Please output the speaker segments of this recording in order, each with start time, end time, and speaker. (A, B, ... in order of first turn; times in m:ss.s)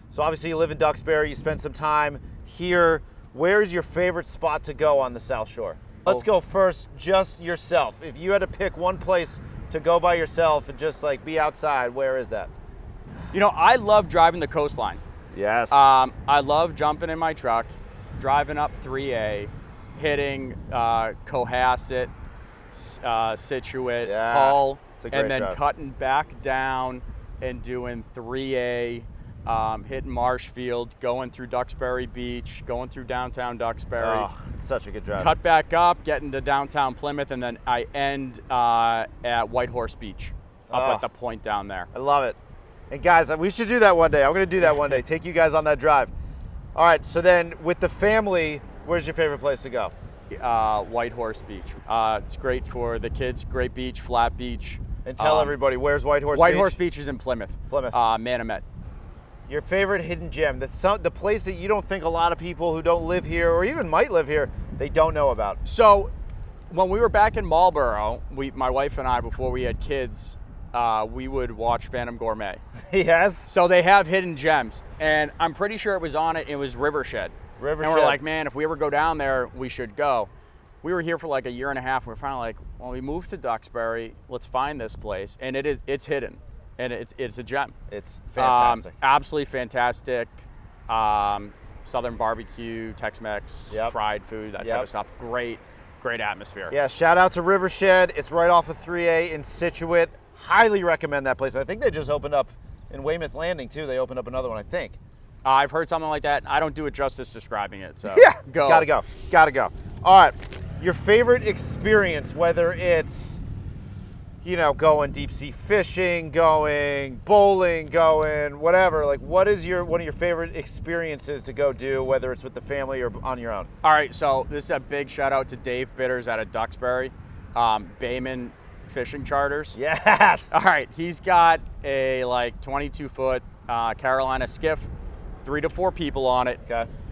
0:00.1-0:12.5 A
0:13.3-0:15.0 B
0:15.3-0:16.0 A
0:15.7-0:22.1 B
0:22.7-0:34.3 B
0:24.0-0:25.6 A
0:34.0-0:35.3 A
0:35.2-0:41.9 B
0:40.7-0:41.0 A
0:41.9-0:42.4 A
0:42.9-0:46.1 A
0:44.6-0:44.9 B
0:46.7-0:49.9 A
0:50.3-0:55.6 B
0:55.0-0:56.8 A
0:56.3-0:58.6 B
0:57.7-0:58.0 A
0:59.5-1:05.6 A
1:05.6-1:06.1 B
1:06.7-1:12.6 B
1:12.9-1:13.5 A
1:13.5-1:20.3 B
1:17.6-1:18.2 A
1:20.8-1:27.7 B
1:27.9-1:28.9 A
1:28.4-1:36.7 B
1:33.7-1:33.9 A
1:34.6-1:34.9 A
1:36.7-1:45.0 A
1:45.4-1:48.9 B
1:48.1-1:53.4 A
1:54.4-2:03.7 A
2:03.8-2:09.8 B
2:09.7-2:10.5 A
2:10.5-2:14.9 B
2:15.4-2:16.6 B